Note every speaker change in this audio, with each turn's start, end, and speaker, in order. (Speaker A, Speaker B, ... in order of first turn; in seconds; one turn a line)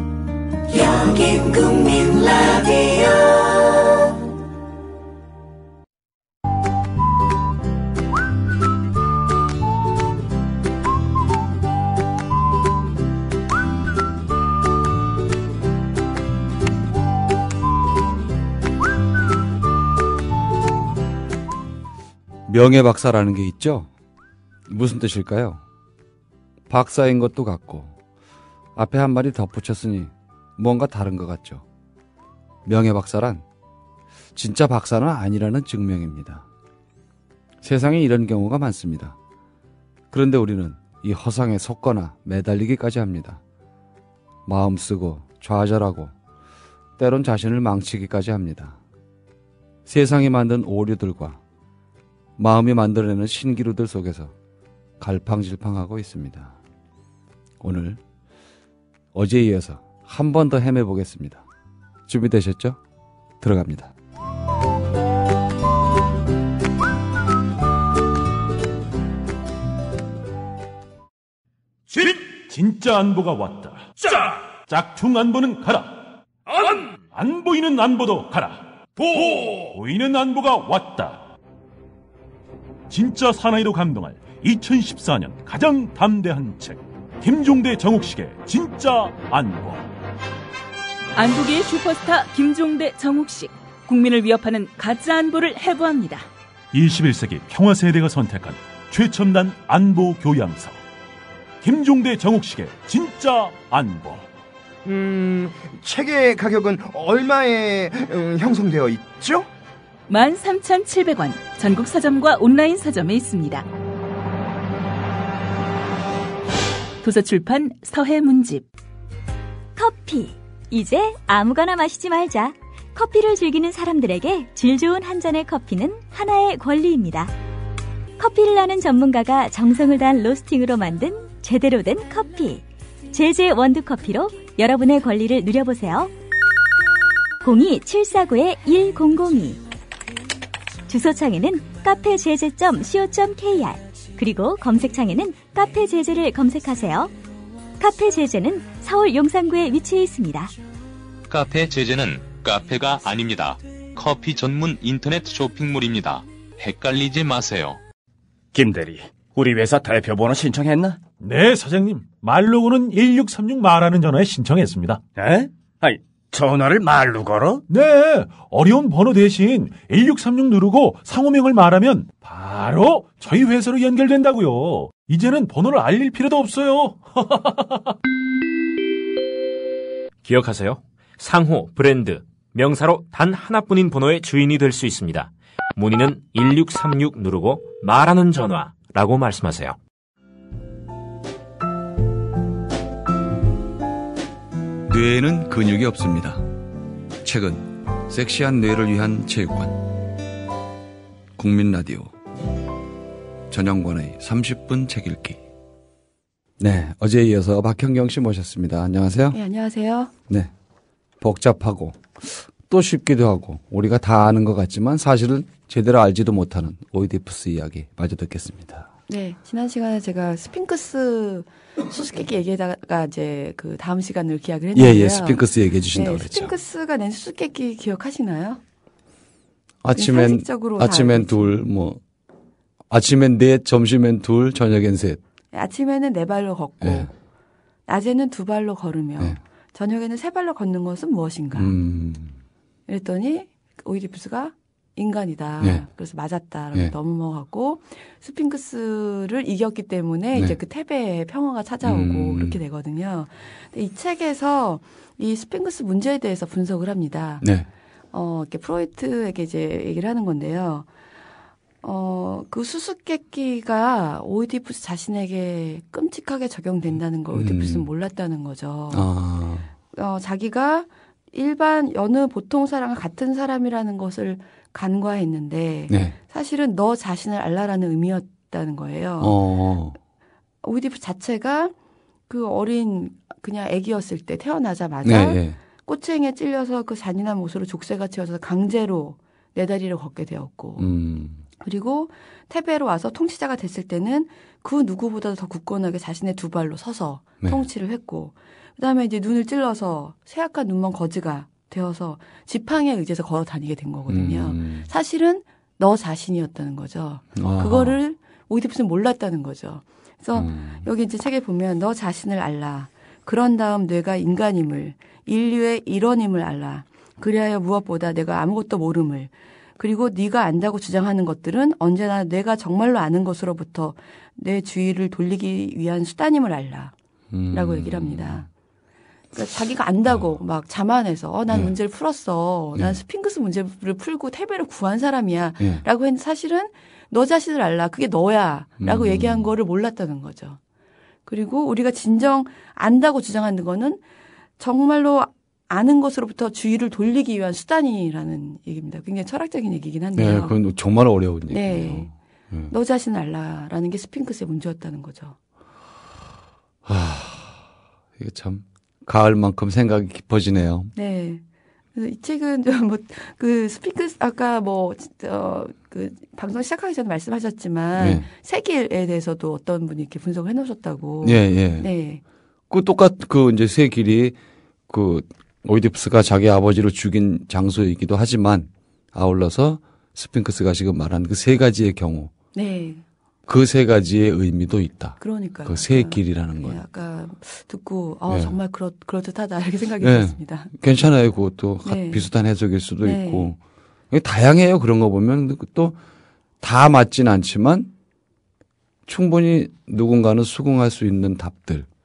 Speaker A: 0.7-3.4
Speaker B: 22.5-23.9
Speaker B: 24.7-25.6
Speaker B: 26.7-27.9
Speaker B: 28.8-31.6
Speaker B: 32.6-33.4
Speaker B: 34.4-36.5
Speaker B: 37.6-39.2
Speaker B: 40.1-43.4
Speaker B: 44.5-46.1
Speaker B: 47.0-48.8
Speaker B: 49.9-51.4
Speaker B: 52.4-54.3
Speaker B: 55.0-56.6
Speaker B: 57.6-58.0
Speaker B: 59.1-61.4
Speaker B: 62.1-62.8
Speaker B: 63.4-63.9
Speaker C: 71.9-76.0
Speaker C: 76.6-81.2
Speaker C: 82.9-89.9
Speaker D: 91.2-96.3
Speaker C: 96.7-100.8
Speaker C: 101.6-104.3
Speaker E: 104.8-109.5
Speaker D: 110.1-113.7
Speaker D: 117.0-118.7
Speaker F: 119.8-127.3
Speaker F: 128.2-136.1
Speaker F: 137.4-139.6
Speaker F: 140.9-147.1
Speaker F: 147.8-150.5
Speaker G: 151.3-157.8
Speaker H: 158.5-161.0
Speaker C: 161.2-165.0
Speaker H: 165.2-167.6
Speaker C: 167.7-177.9
Speaker I: 180.2-189.8
Speaker B: 194.9-196.5
Speaker B: 197.2-199.9
Speaker B: 201.4-202.1
Speaker B: 203.5-205.4
Speaker B: 206.6-209.4
Speaker J: 209.3-210.1
Speaker B: 211.2-218.9
Speaker J: 219.1-228.6
Speaker B: 224.8-226.5
Speaker B: 229.8-232.0
Speaker J: 229.9-231.6
Speaker B: 232.9-235.2
Speaker J: 235.5-237.1
Speaker B: 236.8-237.1
Speaker J: 237.9-241.7
Speaker B: 241.6-242.4
Speaker J: 242.9-257.5
Speaker B: 251.8-252.6
Speaker B: 257.4-257.7
Speaker J: 258.1-260.9
Speaker J: 261.8-269.1
Speaker B: 267.3-267.9
Speaker B: 268.9-269.7
Speaker J: 269.9-279.4
Speaker B: 275.9-276.1
Speaker B: 279.2-280.0
Speaker J: 280.6-281.7
Speaker J: 282.3-290.9
Speaker B: 285.0-285.6
Speaker B: 290.8-291.4
Speaker J: 291.6-326.9
Speaker B: 304.1-304.9
Speaker B: 307.4-308.0
Speaker B: 310.4-310.9
Speaker B: 327.3-328.5
Speaker J: 327.5-328.5
Speaker J: 329.3-340.6
Speaker B: 338.8-339.5
Speaker J: 341.3-344.0
Speaker J: 344.6-350.6
Speaker B: 350.2-352.7
Speaker J: 351.5-352.1
Speaker J: 352.7-355.4
Speaker B: 356.9-357.7
Speaker B: 358.2-360.9
Speaker J: 360.9-361.4
Speaker J: 361.9-372.2
Speaker B: 368.0-368.3
Speaker B: 371.2-371.9
Speaker B: 372.7-374.4
Speaker B: 374.9-382.3
Speaker J: 382.6-383.0
Speaker B: 383.5-386.8
Speaker J: 385.2-390.7
Speaker B: 388.3-388.6
Speaker B: 390.0-393.6
Speaker J: 391.9-392.3
Speaker J: 393.0-393.5
Speaker B: 394.1-396.0
Speaker B: 396.6-397.9
Speaker B: 399.1-401.9